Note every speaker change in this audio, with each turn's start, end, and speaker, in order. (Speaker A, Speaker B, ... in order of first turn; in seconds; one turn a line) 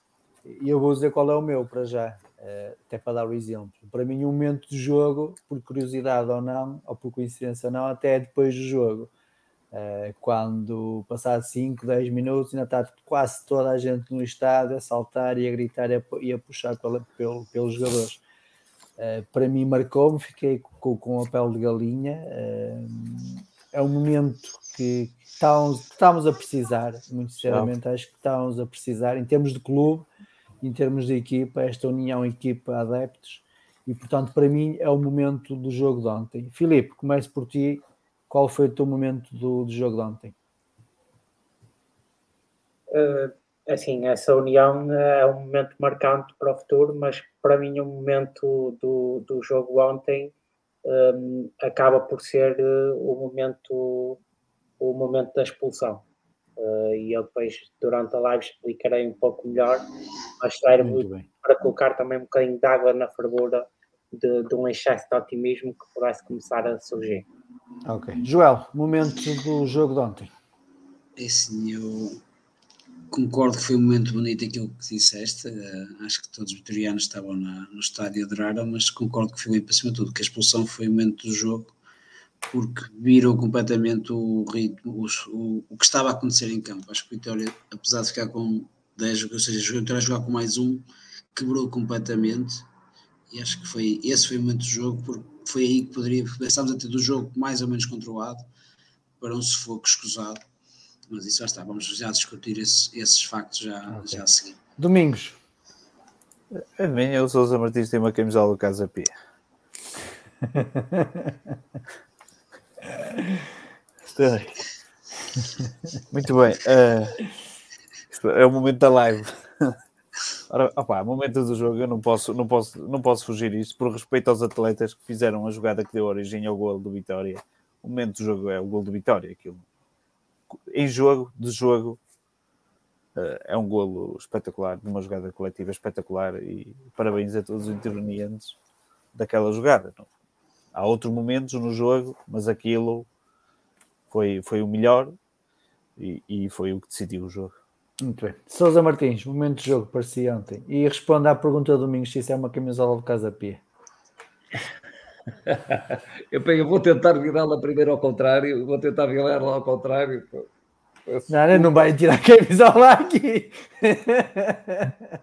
Speaker A: 0.5-9.1
Speaker A: 9.7-18.2
Speaker A: 19.0-30.1
Speaker B: 27.4-27.7
Speaker A: 30.6-40.3
Speaker C: 42.9-50.3
Speaker C: 50.8-54.2
Speaker C: 54.8-56.0
Speaker C: 56.6-59.9
Speaker C: 60.4-67.2
Speaker A: 60.8-61.2
Speaker A: 67.8-70.3
Speaker D: 71.2-72.2
Speaker D: 73.1-81.7
Speaker D: 82.5-92.7
Speaker D: 93.3-98.4
Speaker D: 99.2-100.4
Speaker D: 101.1-104.6
Speaker A: 103.9-104.2
Speaker A: 104.8-105.4
Speaker B: 106.5-109.1
Speaker A: 110.5-111.3
Speaker B: 114.1-114.6
Speaker B: 116.1-117.2
Speaker B: 118.1-119.8
Speaker B: 120.5-129.6
Speaker B: 130.7-132.0
Speaker B: 133.1-138.6
Speaker B: 139.1-140.1
Speaker B: 140.7-143.1
Speaker B: 144.1-145.1
Speaker B: 146.0-147.5
Speaker A: 148.0-153.6
Speaker E: 155.5-160.5
Speaker E: 161.1-161.7
Speaker A: 161.3-164.9